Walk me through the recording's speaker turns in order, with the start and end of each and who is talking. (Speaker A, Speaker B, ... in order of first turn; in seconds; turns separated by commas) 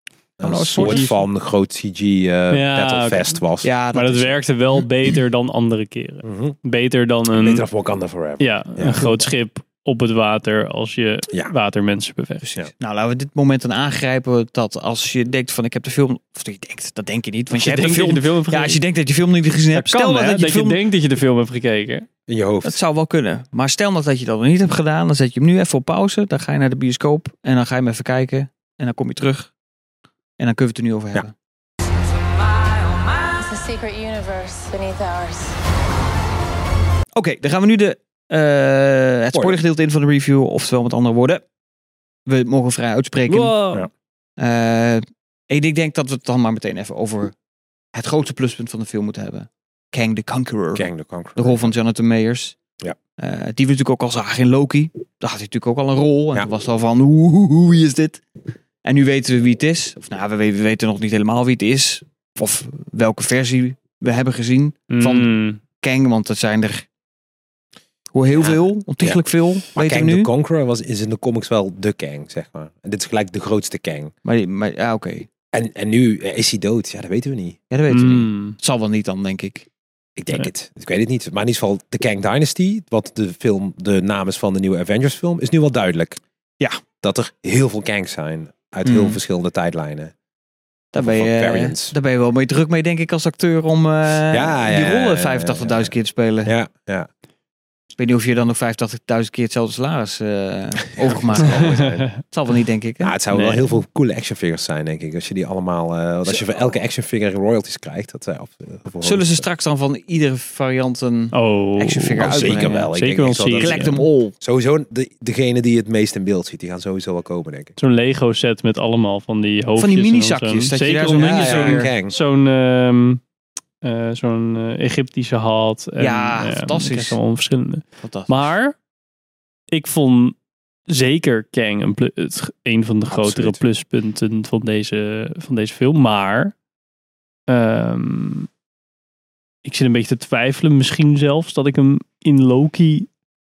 Speaker A: 0.4-3.7, Speaker B: 0.4-1.1, Speaker C: 0.8-1.1, Speaker C: 2.5-3.4, Speaker B: 3.6-4.4, Speaker C: 3.9-7.6, Speaker A: 6.2-6.6, Speaker A: 7.3-9.1, Speaker C: 8.4-12.4, Speaker B: 12.4-20.8, Speaker C: 17.5-18.8, Speaker C: 19.7-22.1, Speaker A: 22.3-22.8, Speaker B: 22.6-29.5, Speaker B: 30.4-31.3, Speaker D: 33.4-35.6, Speaker B: 37.1-41.4, Speaker A: 39.3-39.6, Speaker B: 42.3-43.5, Speaker C: 43.3-43.9, Speaker B: 44.4-47.4, Speaker B: 47.9-52.6, Speaker A: 50.8-51.8, Speaker B: 53.2-58.2, Speaker B: 58.8-66.9, Speaker C: 64.9-65.6, Speaker B: 68.1-70.3, Speaker A: 68.4-69.2, Speaker A: 69.7-74.1, Speaker B: 74.2-75.3, Speaker A: 75.5-77.6, Speaker B: 77.7-79.7, Speaker C: 77.9-78.6, Speaker A: 80.2-86.2, Speaker A: 87.0-90.1, Speaker B: 88.8-89.2, Speaker B: 90.9-96.5, Speaker A: 91.0-91.9, Speaker A: 94.3-95.9, Speaker A: 96.4-97.1, Speaker B: 98.0-103.1, Speaker A: 101.0-102.1, Speaker C: 101.5-102.1, Speaker A: 103.0-109.4, Speaker C: 103.3-103.7, Speaker B: 109.0-112.9, Speaker C: 111.3-114.0, Speaker A: 112.2-117.8, Speaker B: 113.6-114.3, Speaker C: 117.8-123.2, Speaker B: 119.8-121.9, Speaker A: 121.1-122.2, Speaker C: 123.8-128.8, Speaker B: 126.0-127.2, Speaker B: 128.0-128.3, Speaker C: 129.7-130.3, Speaker C: 130.9-136.5, Speaker A: 133.1-133.6, Speaker C: 137.5-138.5, Speaker C: 139.6-143.1